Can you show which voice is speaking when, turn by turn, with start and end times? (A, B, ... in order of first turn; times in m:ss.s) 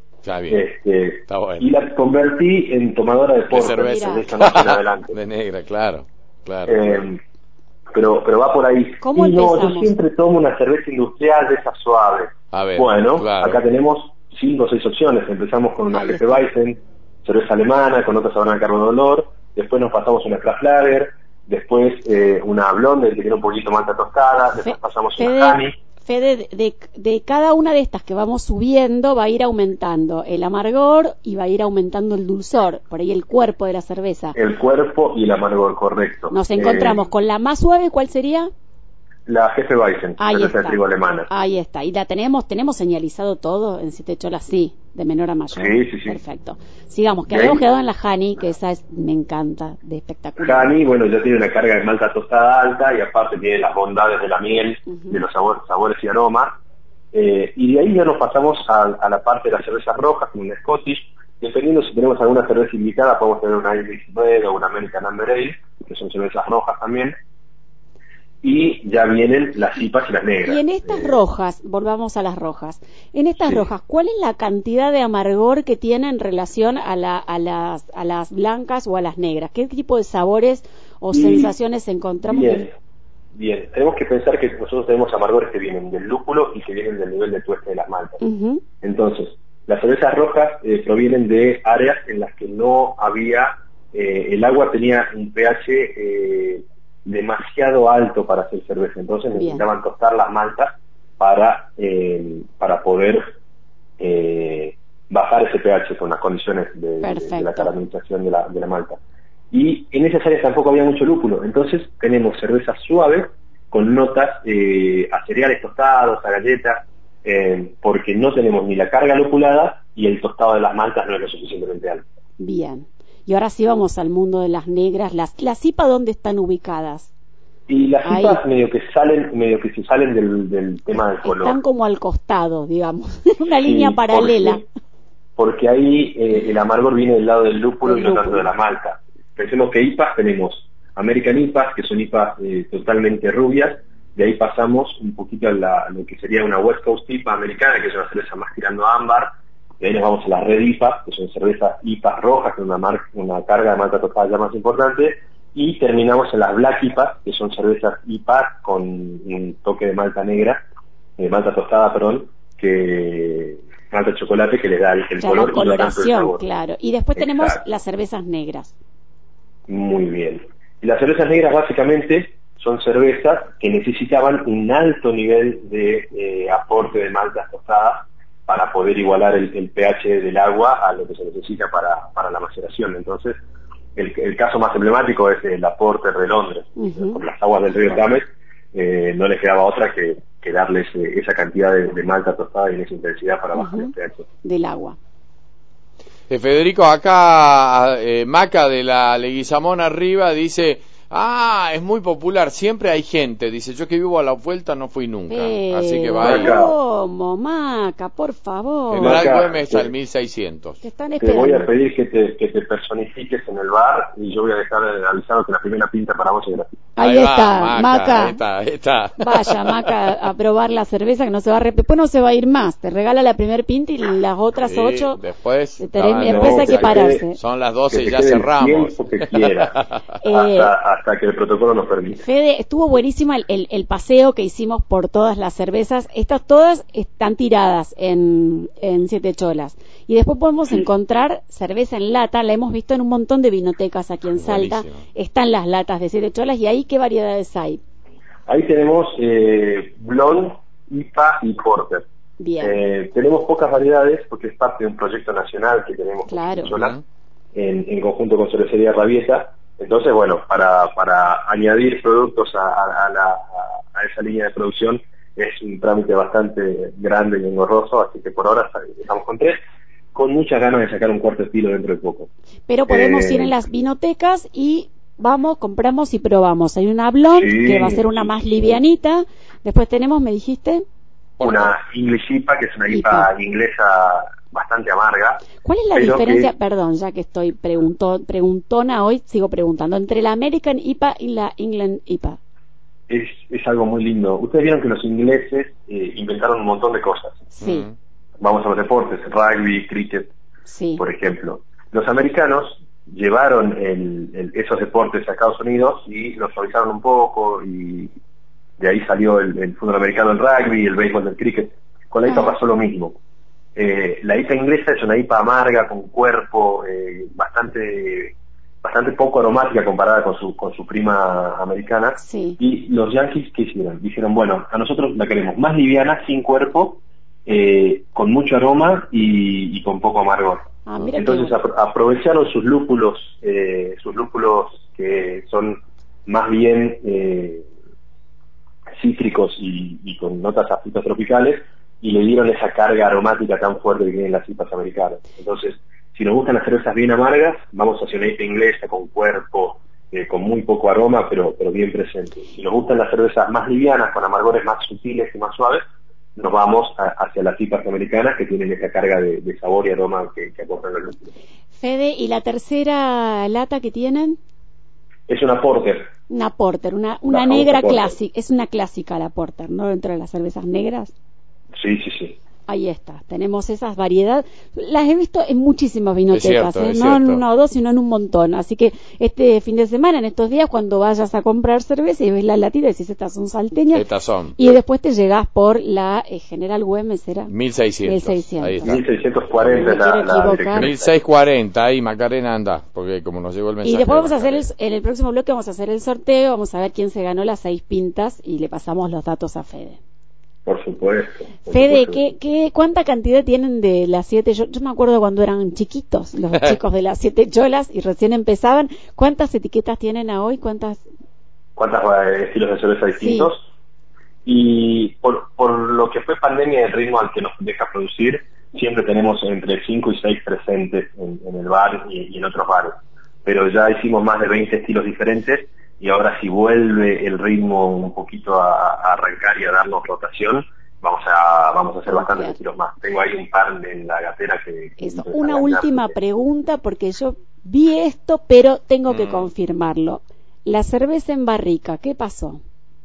0:00.2-0:00.6 A
0:00.5-0:05.2 B
0:01.3-0:01.7 A
0:03.5-0:07.0 A
0:03.8-0:04.3 C
0:06.7-0:07.2 B
0:07.9-0:25.8 B
0:09.0-0:09.9 C
0:12.5-0:13.6 A
0:15.9-0:16.2 C
0:24.6-0:34.4 C
0:34.3-0:37.0 B
0:36.3-0:38.5 C
0:39.2-0:41.3 B
0:40.2-0:50.7 C
0:45.5-0:46.2 B
0:47.3-0:47.6 B
0:50.4-0:56.5 B
0:54.9-0:55.2 C
0:57.1-1:07.1 B
1:08.4-1:11.2 B
1:10.4-1:22.7 C
1:21.1-1:21.5 B
1:22.2-1:22.7 B
1:23.3-1:28.2 B
1:28.2-1:28.6 C
1:28.8-1:43.3 B
1:39.4-1:39.7 C
1:44.0-1:49.0 B
1:47.0-1:47.7 C
1:49.5-2:02.0 B
2:02.4-2:07.1 C
2:07.7-2:11.6 B
2:08.0-2:08.4 C
2:11.2-2:14.6 C
2:13.6-2:14.6 B
2:15.4-2:40.6 B
2:17.8-2:18.5 C
2:41.2-2:46.4 B
2:45.2-2:48.8 C
2:47.2-2:47.6 B
2:49.7-3:03.4 B
3:04.0-3:14.2 B
3:06.8-3:07.2 C
3:13.5-3:13.9 C
3:14.4-3:15.0 C
3:16.3-3:26.5 A
3:25.3-3:29.2 C
3:26.2-3:26.7 B
3:28.9-3:30.8 A
3:29.0-3:29.9 B
3:30.8-3:31.7 C
3:31.2-3:36.7 B
3:37.0-3:38.4 C
3:37.0-3:39.6 A
3:39.2-3:45.2 C
3:44.6-3:49.9 A
3:45.8-3:47.4 C
3:46.2-3:47.2 B
3:47.9-3:52.2 B
3:50.2-3:50.7 C
3:52.1-4:07.8 C
4:04.4-4:05.0 A
4:08.5-4:12.0 B
4:12.4-4:12.8 C
4:12.6-4:17.0 B
4:16.3-4:16.7 C
4:16.7-4:17.0 A
4:17.5-4:29.6 B
4:30.1-4:32.3 B
4:32.7-4:40.8 C
4:32.9-4:33.6 B
4:37.3-4:38.8 B
4:41.4-4:41.7 A
4:41.4-4:46.5 B
4:42.9-4:43.3 C
4:45.6-4:52.4 C
4:53.1-4:57.4 B
4:57.5-4:57.8 C
4:57.6-4:57.9 A
4:58.4-5:00.3 B
5:00.6-5:01.0 C
5:01.0-5:08.1 B
5:08.8-5:13.2 B
5:12.3-5:12.6 C
5:13.8-5:37.7 B
5:22.2-5:22.6 C
5:30.8-5:31.6 C
5:39.0-5:55.8 B
5:56.4-6:01.3 B
6:01.7-6:04.4 C
6:05.3-6:06.1 B
6:06.3-6:11.1 C
6:07.3-6:08.1 B
6:11.8-6:12.4 B
6:12.7-6:27.5 C
6:16.3-6:17.4 A
6:23.9-6:24.6 A
6:27.5-6:29.0 A
6:28.0-6:28.9 C
6:28.8-6:31.1 B
6:29.6-6:29.9 A
6:29.8-6:30.9 C
6:30.7-6:34.6 A
6:33.8-6:40.0 C
6:40.6-6:42.2 B
6:41.6-6:51.0 C
6:51.8-6:53.7 B
6:53.2-6:53.5 C
6:54.4-7:16.1 B
7:12.1-7:12.6 C
7:15.0-7:22.6 C
7:19.1-7:19.5 A